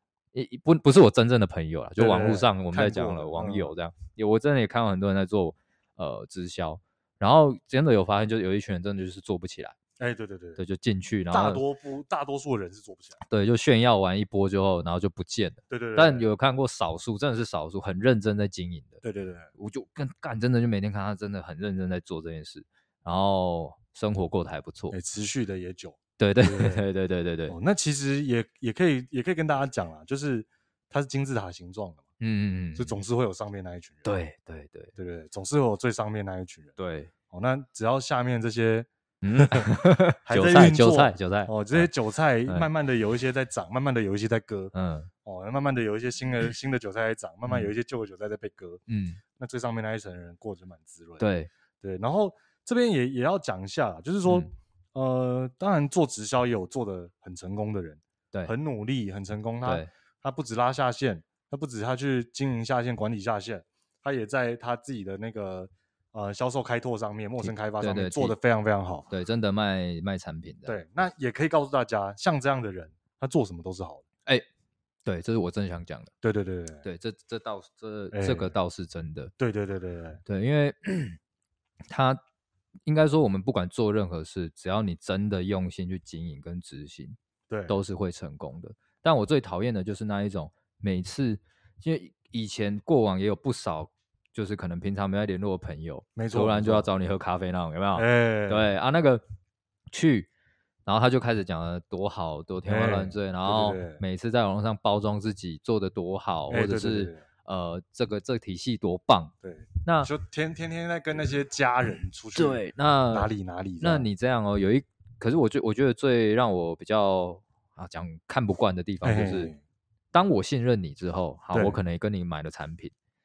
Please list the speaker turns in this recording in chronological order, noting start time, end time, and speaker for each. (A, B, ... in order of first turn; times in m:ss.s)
0:00.3-0:09.8 A
0:02.0-0:03.7 B
0:10.0-0:10.6 B
0:10.6-0:11.6 A
0:11.3-0:13.2 B
0:13.3-0:19.0 A
0:15.7-0:16.2 B
0:19.0-0:19.5 B
0:19.6-0:25.0 A
0:24.9-0:26.8 B
0:26.2-0:27.5 A
0:27.5-0:32.0 B
0:32.2-0:33.0 A
0:32.8-0:34.2 B
0:34.0-0:34.9 A
0:35.0-0:36.7 B
0:36.8-0:37.1 A
0:37.3-0:39.7 B
0:39.2-0:41.9 A
0:40.2-0:44.7 B
0:44.7-0:45.1 A
0:45.2-0:48.8 B
0:48.9-0:49.2 A
0:49.4-0:51.2 B
0:51.2-0:51.5 A
0:51.8-1:09.1 B
0:59.6-0:59.9 A
1:07.4-1:08.3 A
1:09.1-1:10.8 A
1:10.6-1:14.0 B
1:15.0-1:16.1 A
1:16.2-1:16.8 B
1:16.8-1:19.3 A
1:18.1-1:18.5 B
1:19.4-1:20.2 B
1:20.2-1:21.2 A
1:21.9-1:22.2 A
1:22.8-1:27.2 A
1:27.5-1:27.8 B
1:27.7-1:39.2 A
1:36.2-1:36.9 B
1:38.0-1:38.7 B
1:39.9-1:40.3 A
1:40.8-1:50.1 A
1:42.7-1:44.0 B
1:46.5-1:47.2 B
1:49.4-1:52.6 B
1:52.3-1:59.5 A
1:53.1-1:54.1 B
1:59.0-1:59.6 B
2:00.1-2:02.9 A
2:01.5-2:01.8 B